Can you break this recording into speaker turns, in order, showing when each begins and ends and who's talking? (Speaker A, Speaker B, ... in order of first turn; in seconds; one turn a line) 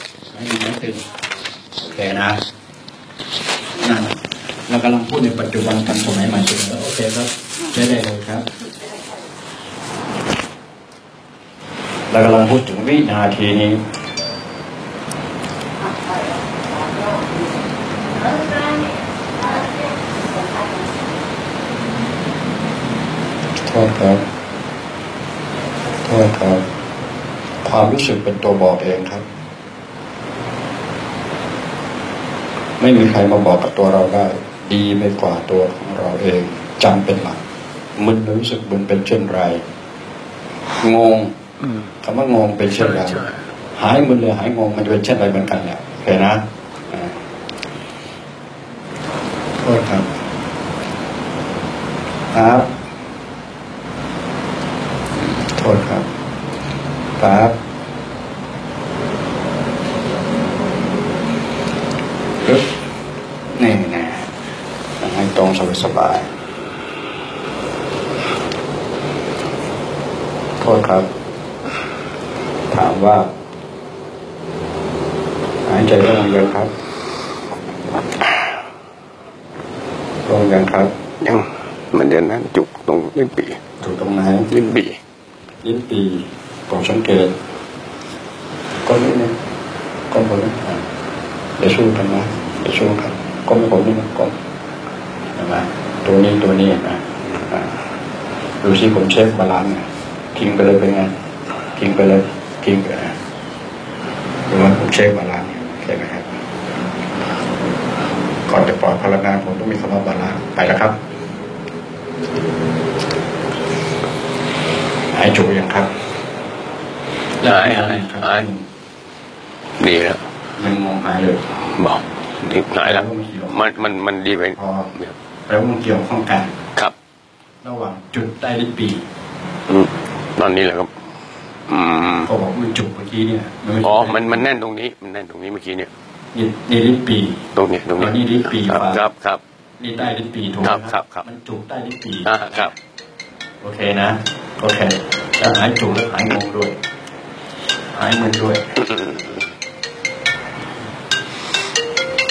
Speaker A: 0.3-1.1
Speaker A: 1.8-2.4
Speaker A: 3.8-8.5
Speaker A: 12.1-13.8
Speaker A: 23.6-24.2
Speaker A: 26.0-26.6
Speaker A: 27.6-29.2
Speaker A: 32.8-37.4
Speaker A: 38.0-39.6
Speaker A: 40.8-41.3
Speaker A: 42.0-47.2
Speaker B: 43.0-43.4
Speaker A: 49.6-50.1
Speaker A: 52.3-52.7
Speaker A: 55.2-56.1
Speaker A: 57.2-57.5
Speaker A: 63.5-64.3
Speaker A: 65.0-66.3
Speaker A: 70.6-71.1
Speaker A: 72.7-73.3
Speaker A: 75.7-76.7
Speaker A: 80.3-80.9
Speaker B: 81.2-83.6
Speaker A: 83.8-84.5
Speaker B: 84.5-85.0
Speaker A: 85.6-87.3
Speaker A: 88.9-89.4
Speaker A: 90.1-90.8
Speaker A: 91.6-94.3
Speaker A: 95.4-97.9
Speaker A: 98.6-101.1
Speaker A: 101.8-103.2
Speaker A: 104.5-106.4
Speaker A: 108.5-111.0
Speaker A: 115.1-115.9
Speaker B: 117.4-118.5
Speaker A: 117.4-118.7
Speaker B: 119.8-120.3
Speaker A: 120.6-121.4
Speaker B: 121.6-125.1
Speaker A: 122.8-123.8
Speaker A: 124.5-124.9
Speaker A: 125.5-126.5
Speaker A: 127.6-129.1
Speaker B: 129.7-130.9
Speaker B: 131.7-132.3
Speaker A: 132.2-134.4
Speaker B: 133.8-135.9
Speaker A: 136.3-137.4
Speaker B: 137.5-139.4
Speaker A: 138.0-139.0
Speaker A: 139.8-142.3
Speaker B: 140.6-141.2
Speaker B: 142.2-142.7
Speaker A: 143.6-146.7
Speaker A: 147.9-148.6
Speaker B: 148.8-149.3